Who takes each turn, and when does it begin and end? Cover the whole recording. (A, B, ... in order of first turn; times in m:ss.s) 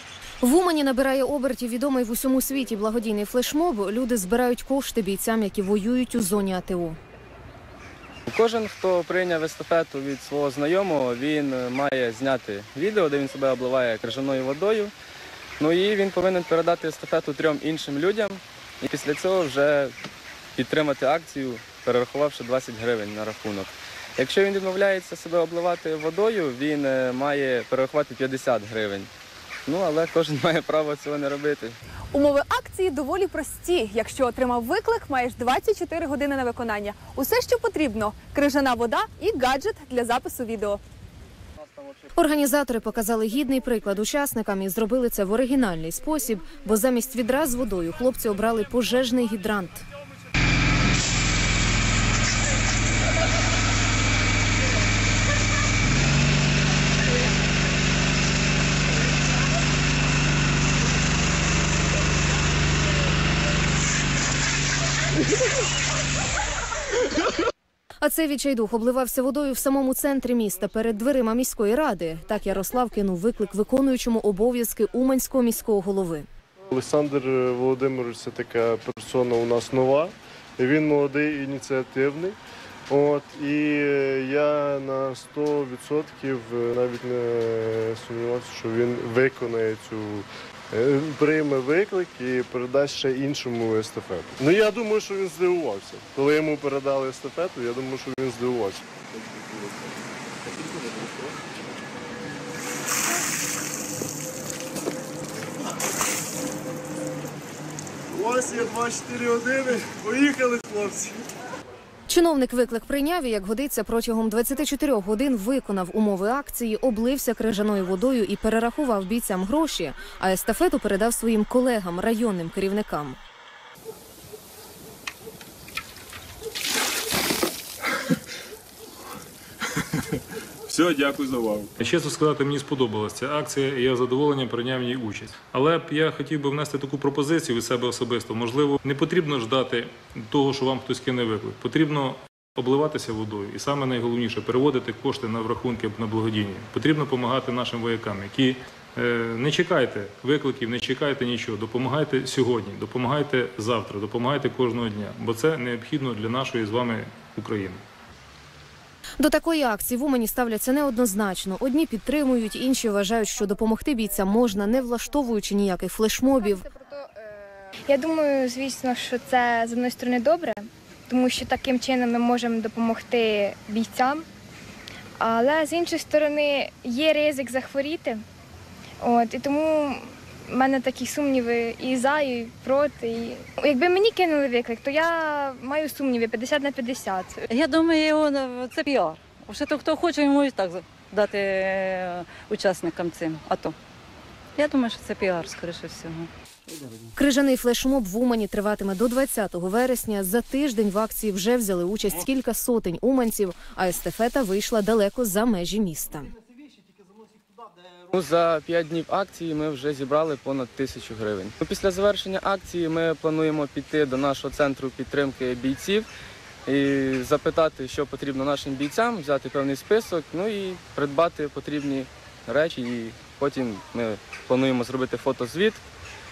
0:00.4-0:07.0 A
0:08.3-0:14.9 B
0:15.6-0:19.9 B
0:20.6-0:29.1 B
0:29.7-0:31.8 B
0:32.1-0:40.8 C
0:42.2-0:49.8 A
1:08.0-1:16.2 A
1:16.7-1:22.4 D
1:22.9-1:38.8 D
1:48.1-1:51.2 D
1:52.1-2:03.2 A
2:10.7-2:37.8 E
2:39.2-2:46.6 A
2:46.4-2:54.2 F
2:55.2-2:58.2 F
2:59.0-3:07.4 F
3:07.5-3:13.8 G
3:14.6-3:16.3 G
3:17.1-3:26.3 A
3:28.1-3:36.1 B
3:36.7-3:45.8 B